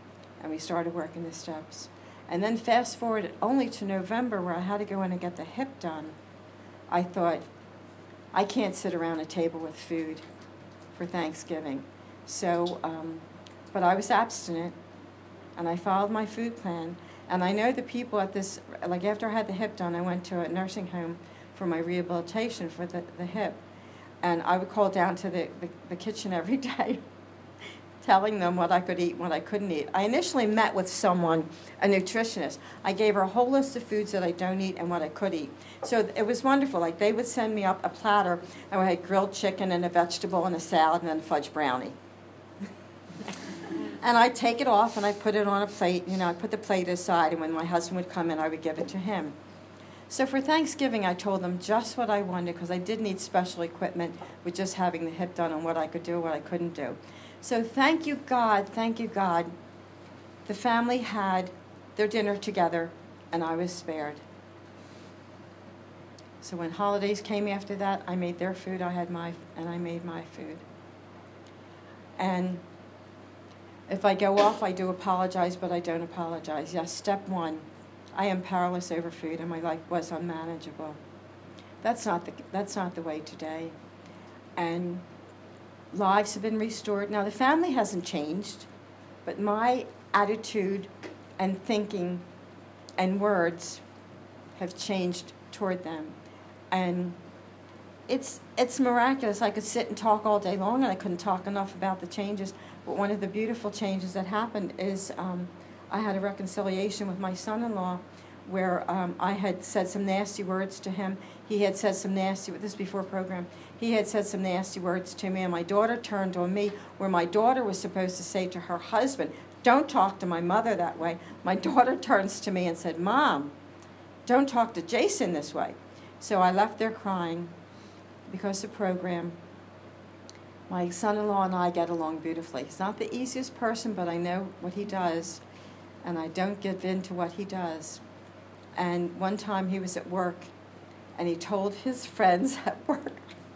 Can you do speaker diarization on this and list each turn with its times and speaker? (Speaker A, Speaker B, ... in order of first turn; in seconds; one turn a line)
Speaker A: 0.4-6.1
Speaker A: 6.9-7.4
Speaker A: 8.3-10.2
Speaker A: 10.9-14.7
Speaker A: 15.6-23.6
Speaker A: 24.2-27.0
Speaker A: 28.0-41.9
Speaker A: 44.0-49.3
Speaker A: 50.1-59.5
Speaker A: 60.5-64.2
Speaker A: 66.4-70.6
Speaker A: 72.2-72.6
Speaker A: 73.9-81.0
Speaker A: 81.8-83.7
Speaker A: 84.6-85.0
Speaker A: 85.9-88.7
Speaker A: 89.2-92.2
Speaker A: 93.0-93.8
Speaker A: 94.5-96.1
Speaker A: 96.7-97.2
Speaker A: 98.1-123.5
Speaker A: 124.2-127.5
Speaker A: 128.3-129.3
Speaker A: 130.7-135.4
Speaker A: 136.0-138.0
Speaker A: 138.8-140.5
Speaker A: 141.2-143.2